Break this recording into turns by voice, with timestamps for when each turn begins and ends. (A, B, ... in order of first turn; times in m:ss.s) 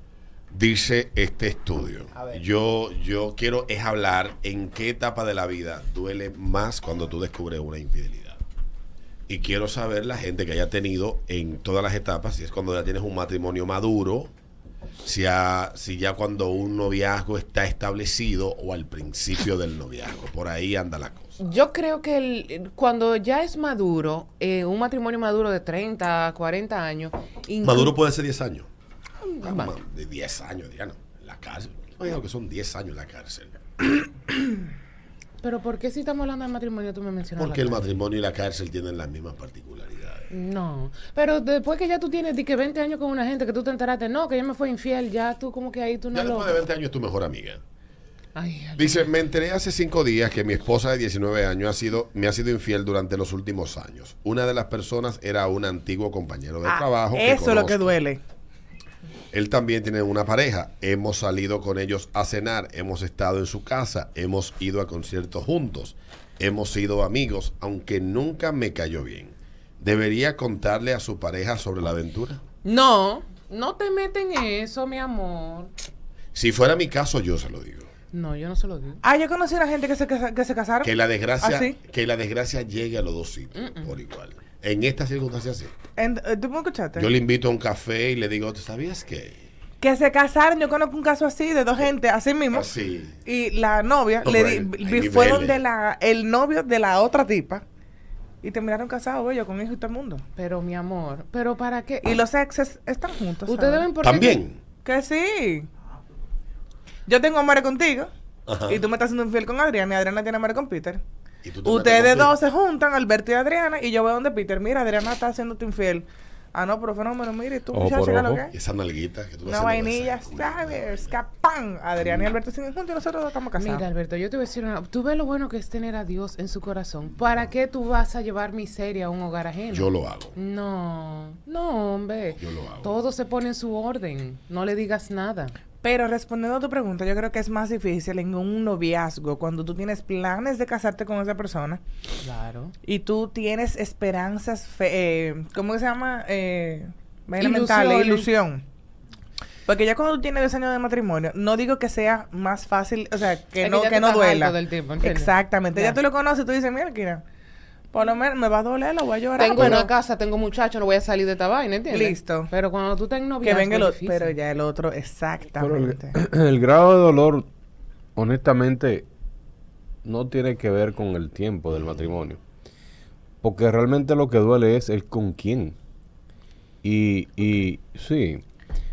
0:00.5-0:08.4 A
0:09.3-0:14.3 A
0:15.0-0:21.4 A
0:21.4-0:27.9 B
0:27.6-0:28.7 A
0:29.2-0:29.7 B
0:29.4-0:33.6 A
0:35.4-0:37.8 B
0:37.4-0:40.3 A
0:40.3-0:46.6 B
0:46.1-0:47.6 A
0:48.4-0:49.1 B
0:48.8-0:58.0 A
0:56.6-0:58.2 C
0:59.3-1:12.4 A
1:12.6-1:15.7 B
1:16.3-1:17.9 A
1:18.1-1:19.0 B
1:19.0-1:21.8 C
1:20.8-1:25.7 A
1:23.6-1:23.9 B
1:26.0-1:27.1 C
1:27.0-1:29.4 A
1:29.8-1:32.7 C
1:32.5-1:33.2 A
1:33.2-1:37.6 C
1:34.2-1:35.6 A
1:38.4-1:40.2 C
1:40.4-1:42.2 B
1:42.0-1:43.9 C
1:43.5-1:44.4 B
1:44.0-1:44.6 A
1:44.8-1:45.7 C
1:47.1-1:48.1 C
1:48.5-1:48.8 A
1:48.7-1:51.0 C
1:51.4-1:52.4 A
1:51.6-1:58.5 C
1:57.7-1:58.4 D
1:58.5-2:01.1 A
1:59.4-2:03.8 C
2:03.6-2:15.6 B
2:09.7-2:10.4 A
2:12.4-2:12.9 A
2:15.8-2:21.8 C
2:22.2-2:22.7 B
2:22.8-2:28.6 C
2:27.4-2:28.3 B
2:29.7-2:37.2 C
2:33.6-2:36.0 B
2:37.9-2:39.9 C
2:39.4-2:44.3 B
2:41.9-2:42.5 C
2:43.4-2:46.2 C
2:45.6-2:47.5 D
2:48.2-2:49.0 D
2:50.0-2:52.4 D
2:51.7-2:52.1 A
2:53.4-2:55.8 D
2:56.8-2:58.4 D